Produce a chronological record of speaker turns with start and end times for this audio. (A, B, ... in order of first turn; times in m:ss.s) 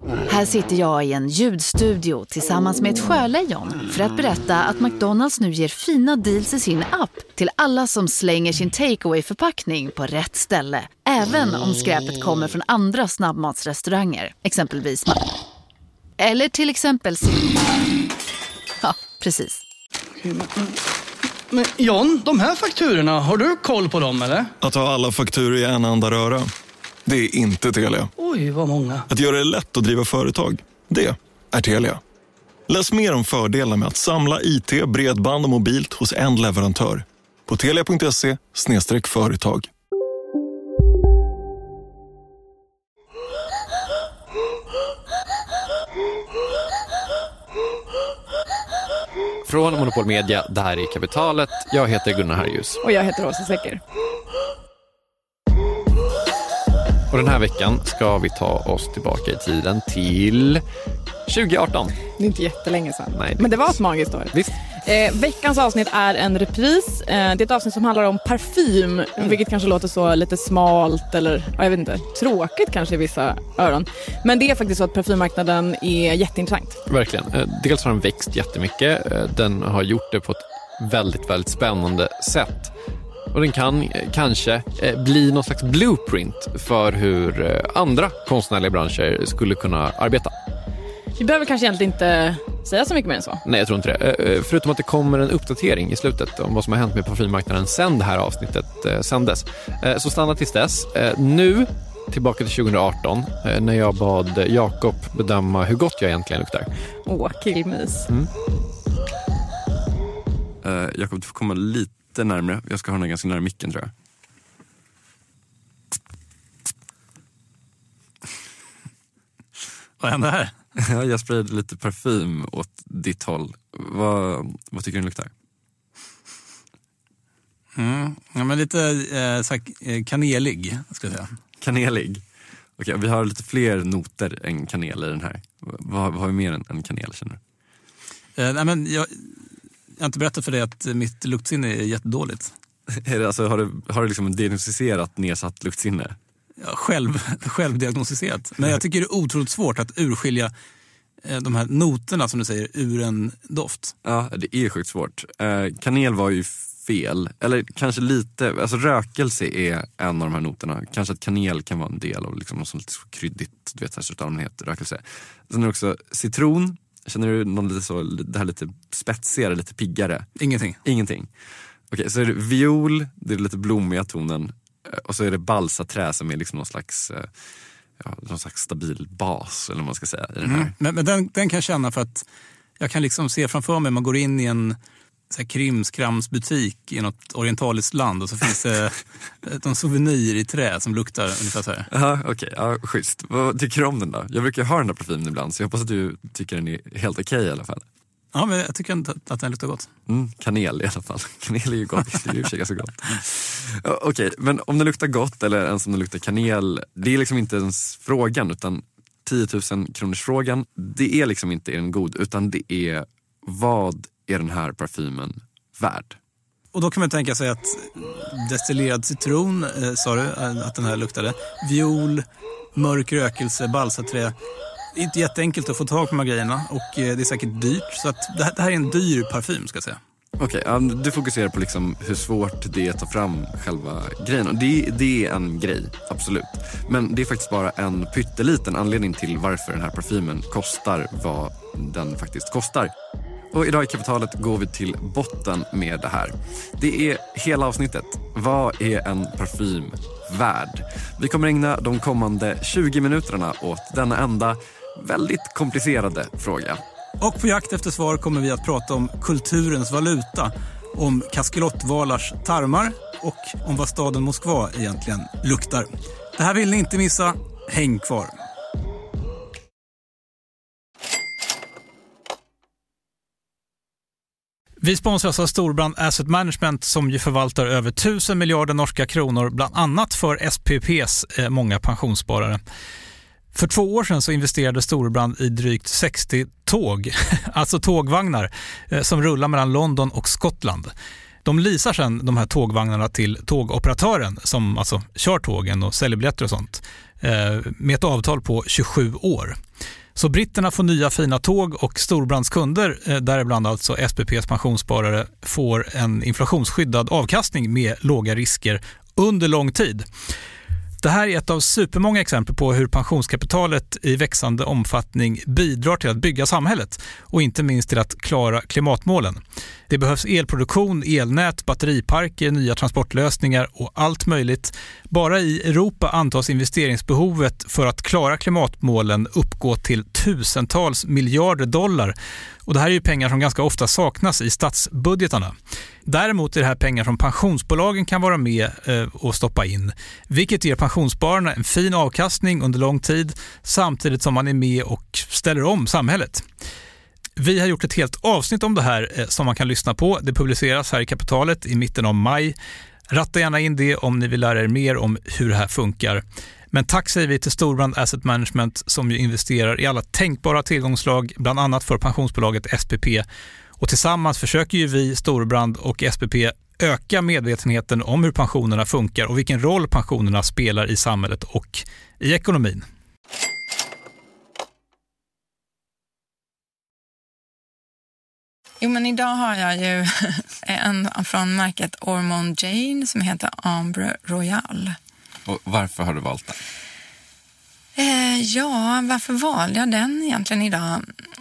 0:00.3-0:15.3 A
0:16.2-0:17.6 A
0:18.8-0:19.6 A
0:20.2-0:20.8 B
0:21.5-0:24.5 B
0:24.6-0:26.5 C
0:27.0-0:28.1 C
0:28.2-0:29.1 B
0:29.1-0:32.0 C
0:32.7-0:39.7 C
0:49.4-0:52.8 D
0:52.8-0:53.8 E
0:57.1-1:00.6 D
1:01.3-1:01.9 D
1:02.2-1:16.8 E
1:03.1-1:03.8 D
1:16.8-1:22.7 D
1:23.3-1:30.3 D
1:31.2-1:33.4 E
1:33.4-1:46.7 D
1:47.0-1:48.1 E
1:50.6-1:53.9 F
2:00.0-2:00.5 G
2:00.8-2:05.3 F
2:07.8-2:11.3 G
2:11.6-2:12.2 F
2:12.8-2:17.4 F
2:18.4-2:19.3 G
2:20.0-2:22.5 G
2:22.9-2:26.2 F
2:26.6-2:30.5 G
2:31.2-2:33.9 G
2:34.0-2:50.3 F
2:50.4-2:50.8 G
2:50.8-2:51.3 F
2:51.9-2:57.3 F
2:58.0-3:00.7 F
3:00.4-3:02.2 G
3:02.8-3:04.8 G
3:05.3-3:11.9 G
3:11.9-3:17.8 F
3:18.3-3:19.9 G
3:20.1-3:36.2 F
3:36.7-3:44.3 G
3:44.9-3:50.0 G
3:50.4-4:02.9 F
4:03.5-4:16.8 F
4:17.2-4:28.3 G
4:34.8-4:42.6 G
4:43.5-4:50.9 G
4:51.4-4:59.6 G
5:00.2-5:10.0 G
5:11.0-5:32.1 G
5:32.7-5:35.5 G
5:36.0-5:46.4 G
5:47.4-5:52.6 G
5:53.1-6:03.2 G
6:03.8-6:12.8 G
6:18.8-6:25.0 H
6:25.4-6:26.6 F
6:28.0-6:31.1 H